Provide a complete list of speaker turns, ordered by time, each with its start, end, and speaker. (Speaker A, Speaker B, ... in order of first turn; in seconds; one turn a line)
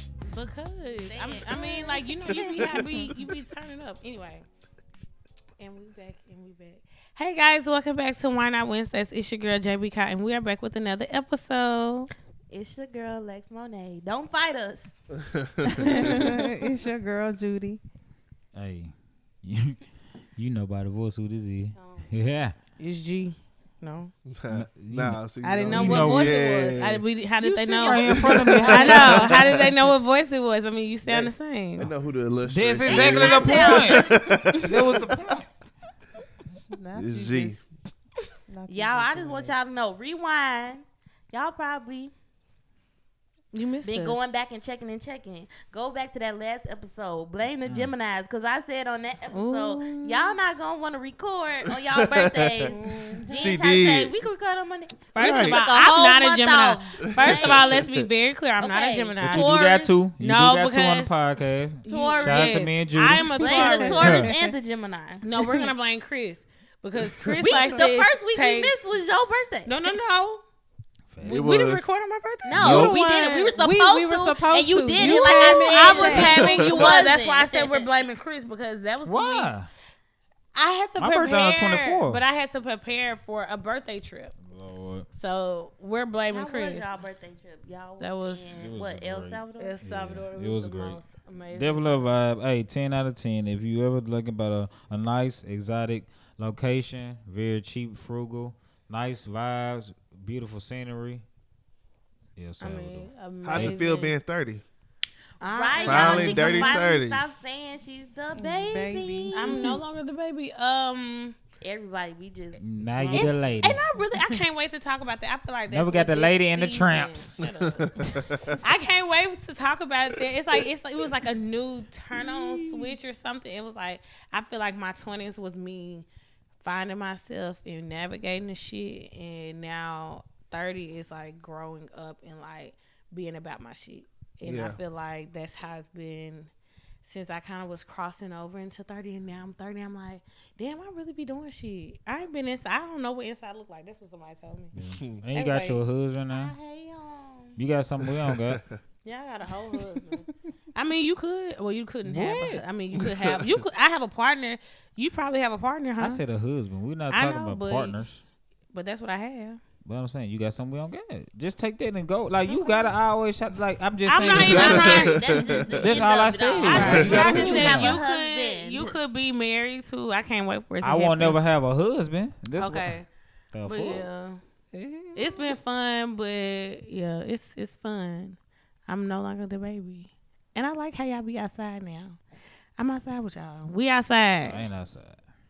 Speaker A: 0.3-4.5
Speaker B: 1.1-2.7
Speaker C: 2.3-3.1
Speaker A: 5.6-12.1
Speaker B: 12.5-15.0
Speaker C: 15.2-15.8
Speaker A: 15.8-16.3
Speaker D: 16.1-17.8
Speaker E: 18.6-19.8
Speaker E: 20.4-22.6
Speaker A: 22.8-24.1
Speaker C: 24.3-27.0
Speaker E: 24.5-26.4
Speaker A: 25.4-31.9
Speaker D: 27.4-29.6
Speaker C: 28.0-29.7
Speaker C: 31.1-35.0
Speaker E: 32.5-35.5
Speaker B: 32.9-34.6
Speaker A: 33.1-33.8
Speaker D: 36.8-37.6
Speaker C: 37.0-37.6
Speaker D: 38.5-39.5
Speaker B: 38.7-42.1
Speaker A: 43.5-44.3
Speaker B: 43.8-57.8
Speaker E: 47.7-47.9
Speaker A: 49.3-50.4
Speaker C: 51.7-54.1
Speaker A: 52.7-53.1
Speaker A: 55.1-61.1
Speaker C: 55.2-55.6
Speaker C: 57.1-58.0
Speaker B: 58.6-59.9
Speaker E: 59.2-64.3
Speaker A: 61.8-64.5
Speaker B: 61.9-62.6
Speaker B: 63.4-65.2
Speaker D: 63.4-64.1
Speaker A: 65.2-68.8
Speaker B: 67.4-69.8
Speaker A: 69.7-70.4
Speaker E: 71.1-71.4
Speaker A: 71.2-72.8
Speaker C: 71.3-71.9
Speaker B: 72.5-77.9
Speaker C: 72.5-72.9
Speaker D: 72.6-76.4
Speaker A: 75.0-79.5
Speaker C: 76.4-76.7
Speaker E: 79.0-79.7
Speaker A: 80.5-84.3
Speaker E: 81.0-82.2
Speaker E: 84.5-85.1
Speaker A: 85.1-86.9
Speaker B: 86.3-89.8
Speaker A: 88.0-88.6
Speaker E: 88.5-91.0
Speaker A: 89.6-91.9
Speaker E: 91.5-101.2
Speaker E: 102.4-103.8
Speaker A: 102.6-104.2
Speaker C: 103.4-104.6
Speaker A: 105.4-106.8
Speaker B: 105.5-109.7
Speaker C: 105.8-107.2
Speaker D: 108.4-109.8
Speaker A: 109.3-111.4
Speaker B: 111.6-113.4
Speaker E: 112.6-113.8
Speaker A: 113.1-126.1
Speaker E: 115.7-117.4
Speaker C: 117.6-118.5
Speaker C: 122.2-122.9
Speaker A: 126.6-136.5
Speaker C: 134.4-134.8
Speaker A: 137.0-144.7
Speaker E: 144.7-146.5
Speaker A: 145.3-145.8
Speaker B: 146.3-147.6
Speaker E: 147.6-148.6
Speaker C: 148.3-148.8
Speaker A: 149.0-156.2
Speaker E: 152.1-152.6
Speaker C: 153.0-153.4
Speaker E: 156.0-158.2
Speaker A: 157.1-158.0
Speaker A: 158.7-159.6
Speaker E: 159.8-165.1
Speaker A: 162.5-162.9
Speaker A: 164.1-165.2
Speaker B: 164.3-168.9
Speaker C: 164.4-165.6
Speaker E: 165.8-168.0
Speaker A: 166.6-171.4
Speaker C: 166.8-167.2
Speaker D: 167.0-167.7
Speaker E: 170.8-172.9
Speaker A: 172.6-173.1
Speaker E: 173.5-174.1
Speaker A: 173.7-174.4
Speaker A: 175.1-182.2
Speaker A: 182.8-184.7
Speaker E: 184.4-185.2